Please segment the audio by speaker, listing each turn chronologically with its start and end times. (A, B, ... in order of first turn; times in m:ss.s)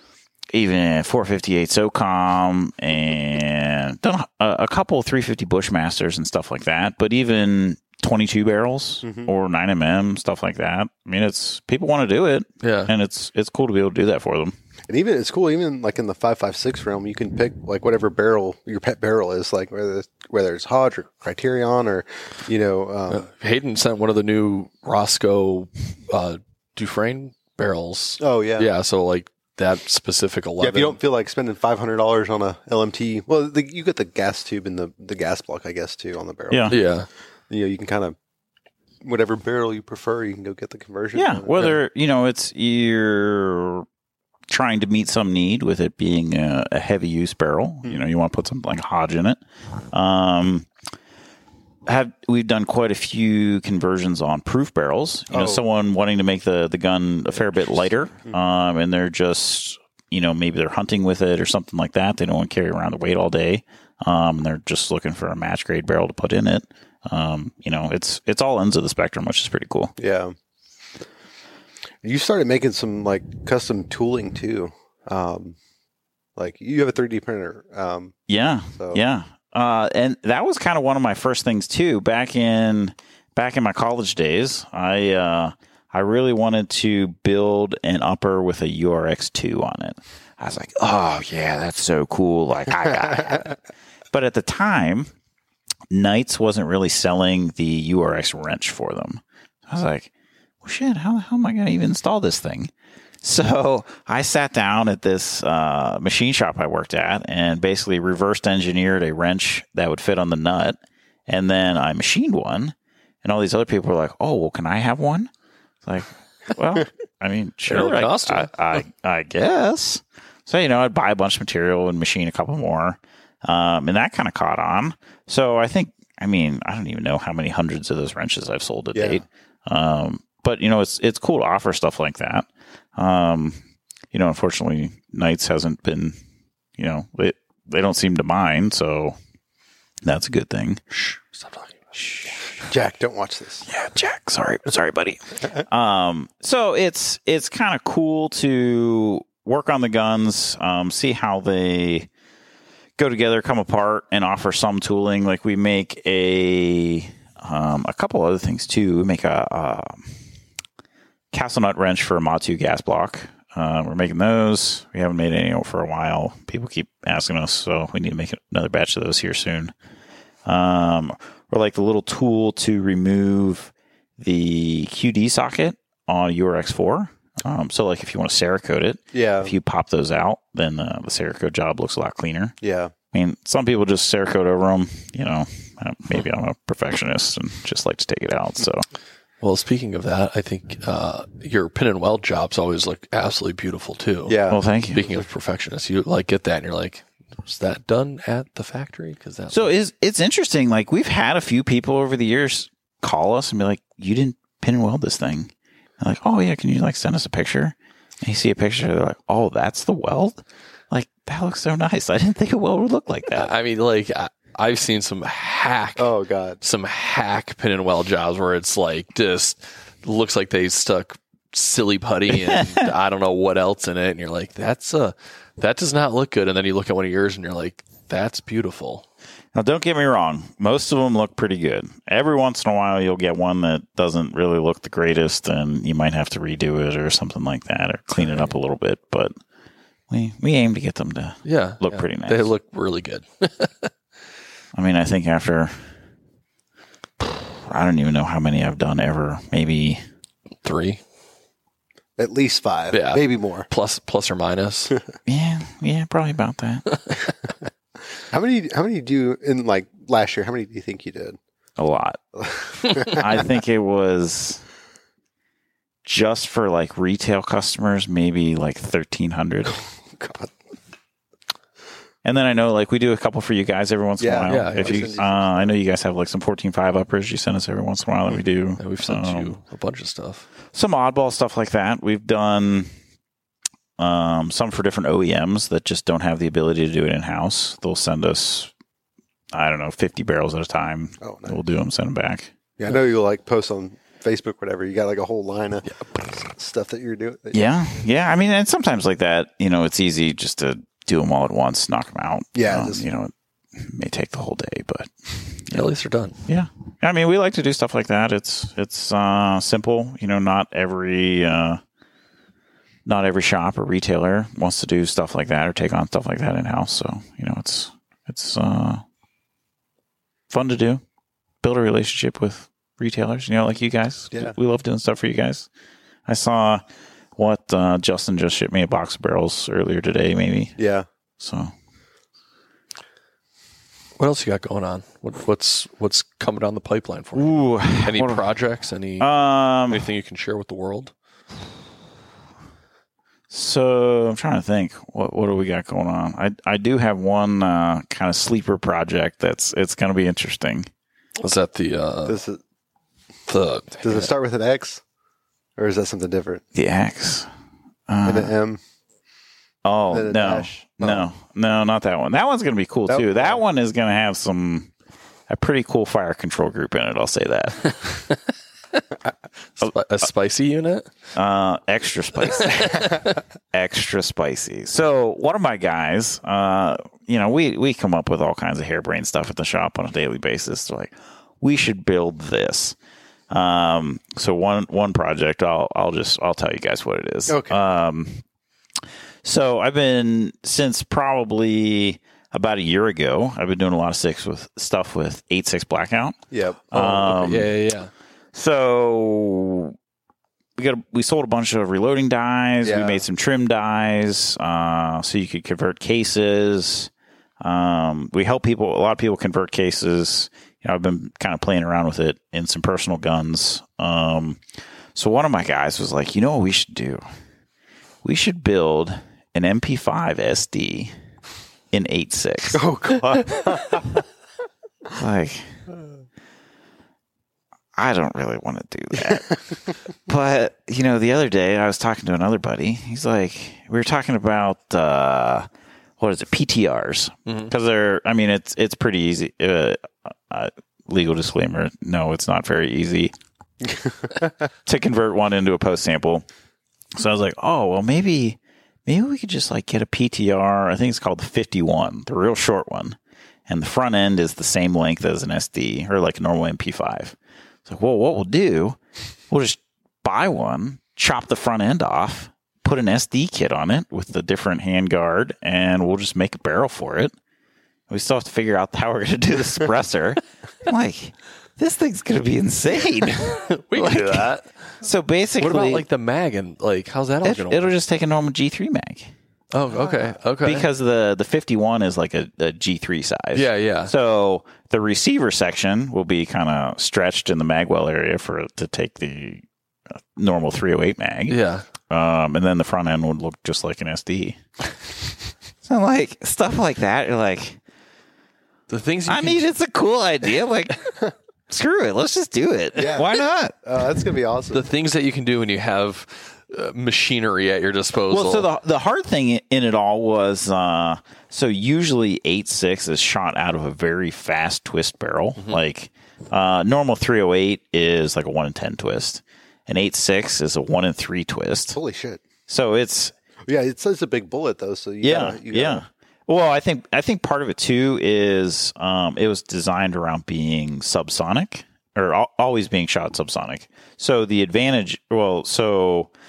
0:00.5-0:14.5 A
0:09.0-0:09.3 B
0:12.6-0:12.9 C
0:14.9-0:23.3 B
0:23.1-0:31.0 C
0:28.2-0:28.7 B
0:30.6-0:36.8 B
0:36.5-0:36.8 A
0:36.7-0:37.1 C
0:37.5-0:38.2 B
0:39.0-0:41.7 B
0:41.1-0:43.8 A
0:44.5-0:49.4 A
0:49.9-0:50.7 A
0:51.8-1:09.9 A
0:55.3-0:55.6 B
1:10.0-1:10.3 B
1:12.0-1:15.6 B
1:16.4-1:18.2 B
1:18.3-1:33.6 A
1:34.1-1:35.1 A
1:35.9-1:40.1 A
1:40.6-1:42.7 A
1:43.2-1:55.3 A
1:55.8-2:13.6 A
1:57.7-1:58.5 C
2:08.9-2:09.2 B
2:14.1-2:16.2 A
2:16.8-2:19.2 A
2:20.0-2:20.8 A
2:20.9-2:21.8 C
2:21.9-2:22.3 A
2:22.7-2:23.6 B
2:23.6-2:32.1 A
2:33.0-2:40.0 A
2:41.3-2:49.7 A
2:50.4-3:02.6 A
2:59.1-2:59.5 B
3:02.6-3:02.9 B
3:03.1-3:08.8 A
3:09.4-3:14.4 C
3:14.3-3:15.2 B
3:14.5-3:15.0 A
3:14.9-3:19.7 C
3:19.5-3:33.5 A
3:33.3-3:49.0 C
3:36.0-3:36.6 B
3:42.5-3:42.9 A
3:49.5-3:59.3 A
3:58.2-3:58.5 C
4:00.1-4:02.5 A
4:01.4-4:03.9 C
4:04.7-4:05.9 A
4:07.2-4:10.0 A
4:10.6-4:11.0 C
4:12.2-4:13.7 B
4:12.9-4:14.9 C
4:15.2-4:16.9 A
4:18.3-4:21.4 B
4:21.8-4:22.2 A
4:22.4-4:23.2 B
4:23.0-4:24.6 A
4:26.0-4:29.8 A
4:29.7-4:30.5 B
4:32.2-4:39.6 A
4:34.2-4:35.8 B
4:34.5-4:35.1 C
4:38.8-4:40.4 C
4:40.7-4:42.9 A
4:44.0-4:48.7 A
4:49.5-4:52.5 A
4:51.2-4:51.6 B
4:52.8-4:57.6 B
4:57.5-5:05.9 A
5:02.5-5:03.0 B
5:05.7-5:06.4 C
5:06.5-5:11.8 A
5:13.0-5:19.0 A
5:20.5-5:21.0 A
5:21.6-5:25.7 A
5:26.2-5:26.8 A
5:27.4-5:30.7 A
5:30.8-5:31.0 B
5:31.4-5:31.7 A
5:34.2-5:39.3 C
5:37.3-5:38.4 A
5:39.2-5:40.1 A
5:39.9-5:41.1 C
5:43.5-5:50.9 A
5:51.4-5:52.4 C
5:52.2-5:52.6 B
5:53.5-5:54.3 C
5:54.0-5:55.0 B
5:55.8-5:56.6 B
5:56.7-5:57.5 A
5:58.1-5:58.5 A
5:58.2-5:58.8 B
5:59.8-6:04.9 A
6:00.1-6:01.3 B
6:03.1-6:03.6 B
6:05.5-6:08.0 A
6:09.8-6:11.1 C
6:11.3-6:23.0 A
6:23.5-6:28.4 A
6:27.5-6:27.8 B
6:29.4-6:36.4 A
6:36.5-6:36.9 B
6:36.9-6:37.7 A
6:36.9-6:38.1 C
6:38.5-6:39.9 A
6:40.8-6:47.1 A
6:42.8-6:43.2 B
6:47.6-6:54.6 A
6:55.1-6:57.2 A
6:58.2-7:01.1 A
7:01.9-7:02.8 A
7:02.7-7:04.2 B
7:05.2-7:05.7 A
7:08.0-7:09.5 A
7:10.3-7:15.7 A
7:16.2-7:23.3 A
7:24.8-7:26.4 A
7:27.1-7:39.0 A
7:39.5-7:47.3 A
7:48.1-7:56.0 A
7:53.4-7:55.0 C
7:55.6-7:57.9 C
7:57.4-7:59.3 A
7:59.7-8:00.9 C
8:00.6-8:09.6 A
8:03.5-8:04.1 C
8:10.4-8:14.6 A
8:11.5-8:11.8 C
8:15.8-8:17.8 A
8:18.9-8:19.7 C
8:19.3-8:21.0 A
8:21.7-8:23.8 A
8:23.0-8:24.8 B
8:24.7-8:28.7 C
8:28.3-8:42.0 A
8:41.9-8:42.4 B
8:42.7-8:43.3 A
8:43.7-8:46.0 B
8:45.2-8:56.3 A